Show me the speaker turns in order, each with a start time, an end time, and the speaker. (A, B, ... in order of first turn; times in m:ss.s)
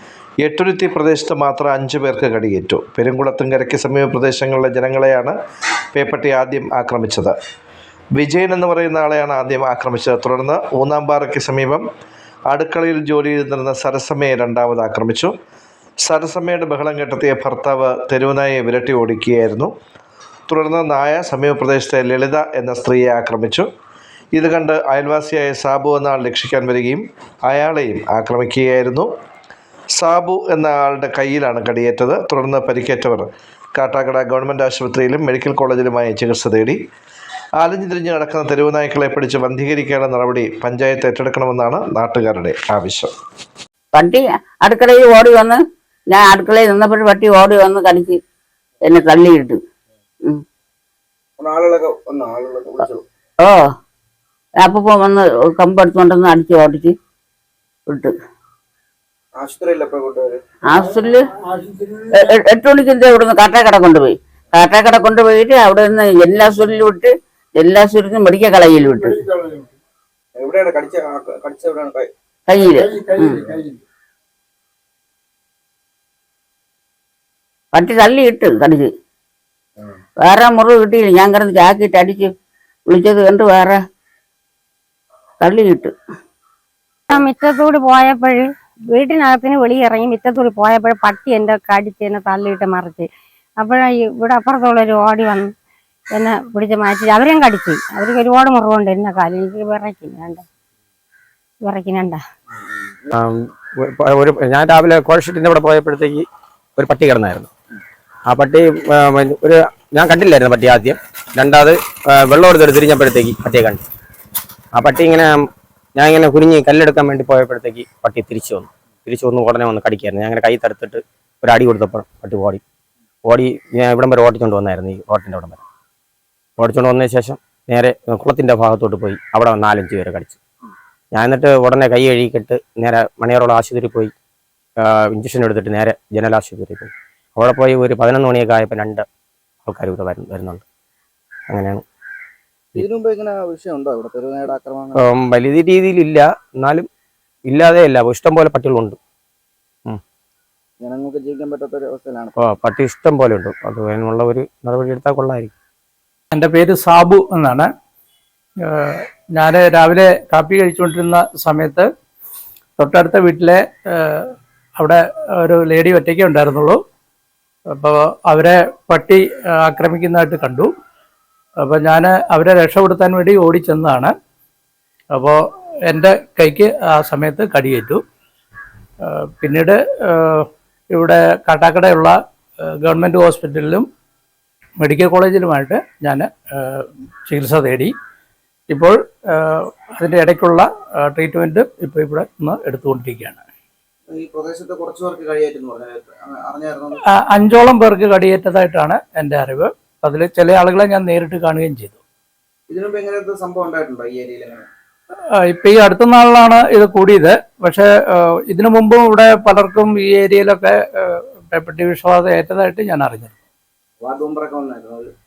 0:00.4-0:05.3 A
0:05.9-0:07.3 A
0:08.2-0:11.8 A
0:12.5-0:15.3 A
0:16.0-0:19.7 A
0:20.5-0:23.7 A
0:24.3-0:29.1 A
0:30.0-0:33.2 A
0:33.8-0:36.8 A
0:37.6-0:43.1 A
0:43.9-0:48.2 B
0:48.8-0:49.6 B
0:51.4-0:53.0 C
0:53.4-0:53.7 B
0:54.6-0:56.9 B
0:59.4-1:00.4 C
1:00.7-1:01.3 B
1:02.0-1:09.2 B
1:10.4-1:12.1 C
1:12.5-1:13.5 B
1:17.7-1:18.9 B
1:20.2-1:22.3 B
1:22.9-1:23.8 B
1:25.4-1:25.9 B
1:27.1-1:33.1 D
1:33.6-1:35.5 D
1:36.1-1:40.4 D
1:41.6-1:42.2 D
1:43.1-1:46.2 E
1:46.8-1:47.5 E
1:48.3-1:53.8 E
1:54.7-1:55.4 E
1:56.0-2:02.6 E
2:03.2-2:05.6 E
2:06.6-2:10.4 E
2:11.1-2:14.1 E
2:14.8-2:19.0 E
2:19.6-2:20.6 E
2:21.5-2:21.8 E
2:22.7-2:25.0 C
2:25.0-2:26.9 E
2:27.5-2:29.0 E
2:30.8-2:32.3 C
2:32.4-2:35.5 E
2:36.3-2:37.7 F
2:38.7-2:41.8 F
2:42.8-2:46.8 F
2:47.7-2:50.7 F
2:51.6-2:54.1 F
2:55.2-2:58.0 F
2:59.0-3:02.2 F
3:02.8-3:03.8 F
3:04.8-3:07.9 F
3:08.7-3:13.4 F
3:14.1-3:17.0 C
3:17.2-3:22.0 F
3:22.7-3:24.7 C
3:25.4-3:33.3 F
3:34.0-3:35.1 C